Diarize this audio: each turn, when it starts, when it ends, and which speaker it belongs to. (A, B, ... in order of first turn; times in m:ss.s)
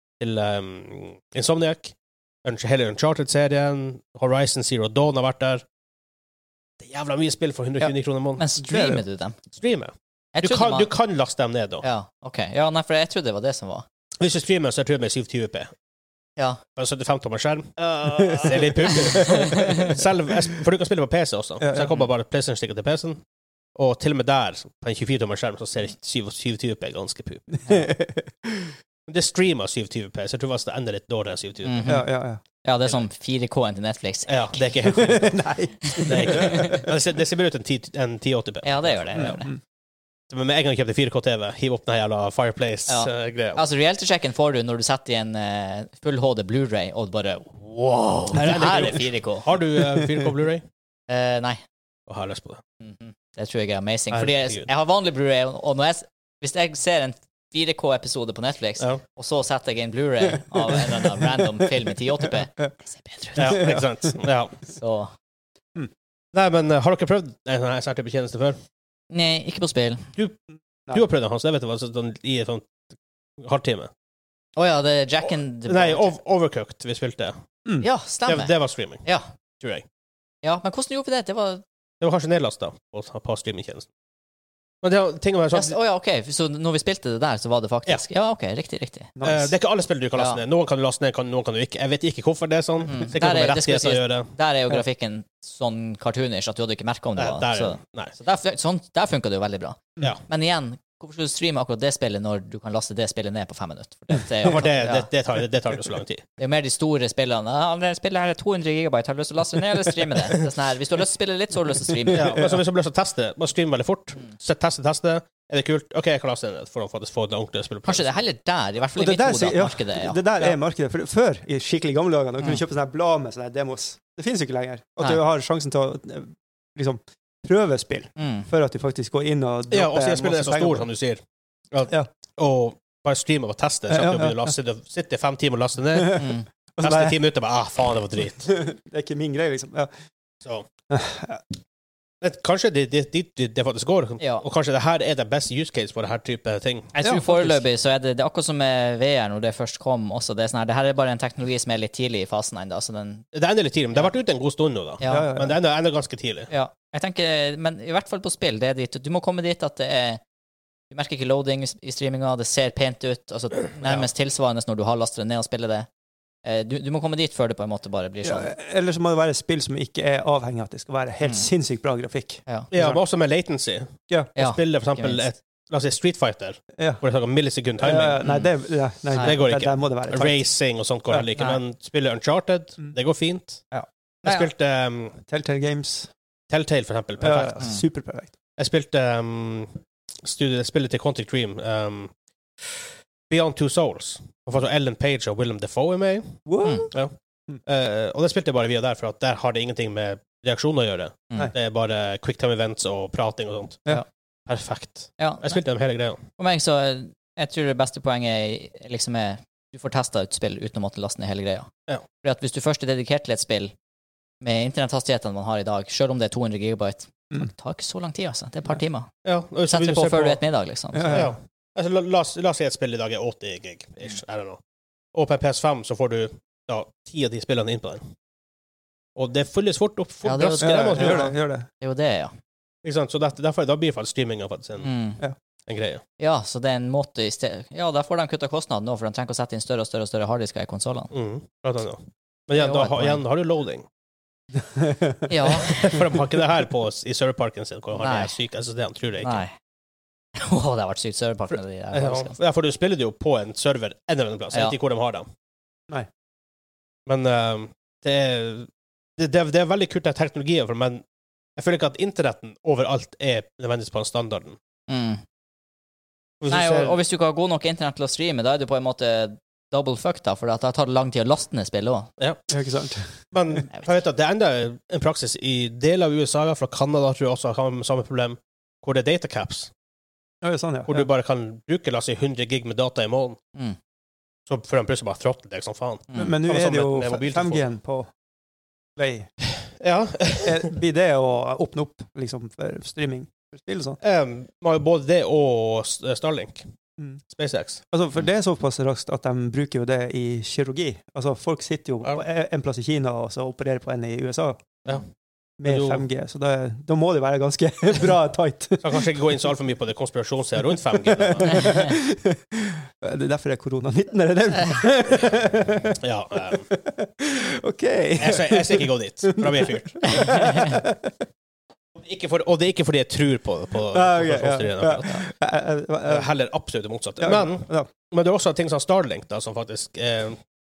0:00.2-0:01.9 A
0:02.4-0:05.6 A
0:06.8-0:08.4 A
0:07.8-0:09.4 B
0:08.6-0:09.0 C
0:09.5-0:11.8 A
0:10.3-0:10.9 B
0:11.8-0:13.8 B
0:14.2-0:15.7 A
0:16.8-0:23.2 A
0:18.1-0:19.8 C
0:18.9-0:19.9 B
0:21.6-0:21.9 C
0:23.8-0:27.8 A
0:27.6-0:28.7 C
0:29.1-0:32.0 A
0:31.6-0:32.1 B
0:31.8-0:32.4 C
0:32.6-0:34.7 B
0:34.3-0:35.4 A
0:34.9-0:36.9 C
0:35.9-0:36.8 B
0:36.0-0:39.3 A
0:38.6-0:39.5 B
0:39.2-0:39.5 C
0:40.3-0:43.6 A
0:42.9-0:47.6 B
0:47.6-0:50.6 A
0:48.3-0:49.5 B
0:51.1-0:51.6 B
0:52.1-0:52.6 A
0:52.8-1:03.7 B
0:54.1-0:54.7 A
1:00.7-1:01.3 C
1:03.4-1:04.6 A
1:03.4-1:03.8 C
1:04.7-1:05.1 B
1:06.3-1:08.6 A
1:09.1-1:10.1 B
1:10.9-1:12.7 A
1:13.4-1:13.9 A
1:14.6-1:16.1 B
1:15.7-1:17.4 A
1:17.8-1:18.5 B
1:18.3-1:19.0 A
1:20.4-1:21.6 B
1:22.0-1:23.9 A
1:24.8-1:25.8 A
1:25.5-1:29.1 B
1:29.2-1:29.5 C
1:29.2-1:34.3 A
1:30.2-1:30.4 B
1:32.9-1:45.1 B
1:37.2-1:38.1 A
1:44.4-1:46.2 A
1:46.4-1:52.4 B
1:52.1-1:58.1 A
1:57.8-2:00.6 B
1:59.0-2:10.9 C
2:08.2-2:08.5 B
2:09.7-2:11.2 A
2:11.7-2:16.3 A
2:13.9-2:14.4 C
2:16.0-2:17.2 C
2:16.1-2:16.4 B
2:16.8-2:18.5 A
2:18.4-2:19.9 C
2:20.9-2:21.4 C
2:22.2-2:26.9 A
2:27.0-2:33.2 B
2:27.0-2:27.6 C
2:33.3-2:36.5 A
2:35.0-2:35.3 B
2:35.1-2:35.6 C
2:36.5-2:40.2 B
2:40.9-2:45.9 B
2:43.8-2:44.1 A
2:46.4-2:48.5 B
2:48.2-2:53.0 C
2:52.7-2:58.2 A
2:54.4-2:55.2 B
2:56.8-2:57.0 C
2:57.8-3:00.4 C
2:58.2-2:58.5 B
2:59.2-3:03.6 A
3:04.2-3:05.2 A
3:05.3-3:06.1 C
3:06.5-3:07.6 A
3:07.2-3:08.3 C
3:08.6-3:12.1 A
3:12.6-3:16.3 A
3:16.4-3:16.9 C
3:16.6-3:16.9 B
3:17.6-3:23.9 A
3:24.5-3:26.2 A
3:25.2-3:25.6 B
3:26.4-3:31.7 B
3:32.2-3:33.7 B
3:34.4-3:39.1 B
3:39.2-3:40.4 A
3:39.7-3:41.3 B
3:40.9-3:41.3 C
3:41.1-3:44.6 A
3:45.1-3:48.0 A
3:49.2-3:51.3 A
3:50.2-3:52.3 B
3:50.6-3:51.7 C
3:52.8-3:54.9 A
3:54.8-3:55.2 B
3:55.7-3:56.0 A
3:56.2-4:01.1 B
4:01.1-4:03.8 A
4:02.6-4:03.2 B
4:04.6-4:05.3 C
4:05.3-4:06.0 B
4:05.4-4:09.4 A
4:08.0-4:08.3 B
4:09.2-4:09.5 B
4:10.4-4:12.4 B
4:11.9-4:15.3 A
4:17.0-4:21.0 A
4:21.6-4:24.6 A
4:24.9-4:25.2 B
4:26.4-4:27.0 A
4:26.5-4:32.1 B
4:32.5-4:33.0 C
4:33.3-4:39.7 A
4:40.4-4:41.1 C
4:40.9-4:43.4 A
4:44.5-4:47.6 A
4:46.1-4:46.4 B
4:46.1-4:48.1 C
4:49.0-4:49.3 C
4:49.6-4:50.7 A
4:50.4-4:54.0 C
4:54.0-4:56.7 A
4:57.3-4:57.8 A
4:57.9-5:04.6 C
5:05.6-5:09.0 C
5:05.6-5:06.0 A
5:08.8-5:11.7 A
5:11.2-5:16.0 C
5:11.5-5:11.9 B
5:16.0-5:16.6 A
5:16.5-5:21.2 C
5:18.2-5:20.5 A
5:20.2-5:20.8 B
5:22.0-5:25.2 A
5:23.9-5:26.3 C
5:26.0-5:30.4 A
5:27.2-5:27.9 C